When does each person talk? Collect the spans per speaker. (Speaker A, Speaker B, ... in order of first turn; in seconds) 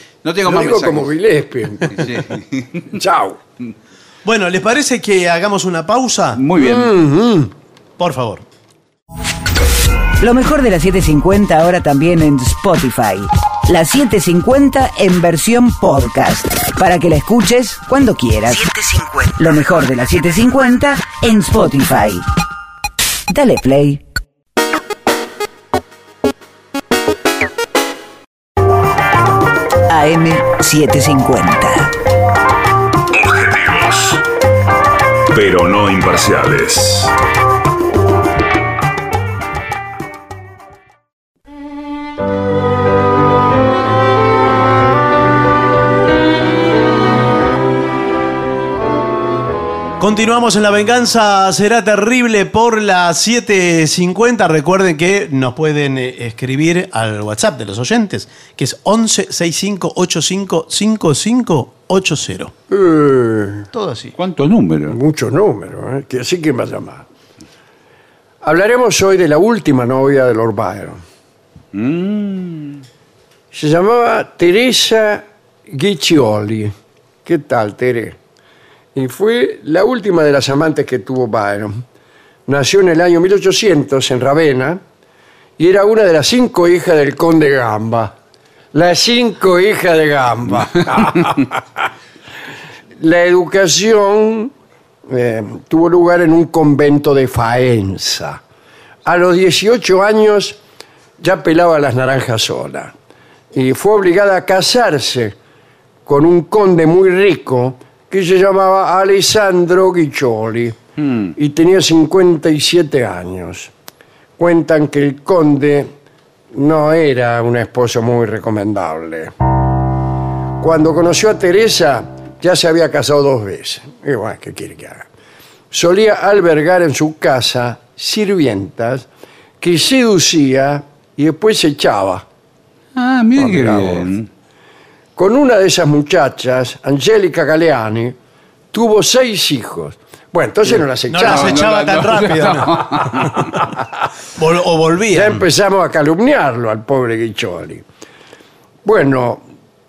Speaker A: 0.2-1.1, 1.9-2.9, 6.3-6.9, 64.2-65.0, 71.7-72.8, 111.0-111.3, 132.9-134.3, 141.2-143.5
Speaker B: 0.4-2.2, 2.9-3.4, 6.6-7.5, 62.7-63.7, 64.9-67.0, 68.4-71.0, 73.5-76.7, 77.2-78.2, 78.9-81.8, 82.5-84.8, 85.6-88.1, 88.7-91.9, 93.0-94.5, 95.1-98.4, 99.0-100.6, 101.2-102.9, 103.5-105.3, 106.0-110.8, 111.3-113.7, 114.4-115.9, 116.5-119.3, 120.6-125.1, 125.7-129.1, 129.6-132.2, 133.3-134.1, 135.2-138.2, 138.7-141.7, 145.1-147.8, 148.8-149.4
Speaker C: 4.2-6.4, 8.0-8.4, 50.0-62.5, 63.7-64.1, 141.1-143.3, 144.3-145.4
Speaker D: 10.2-22.3, 23.3-24.0, 29.9-31.9
Speaker E: 33.1-34.2, 35.3-37.1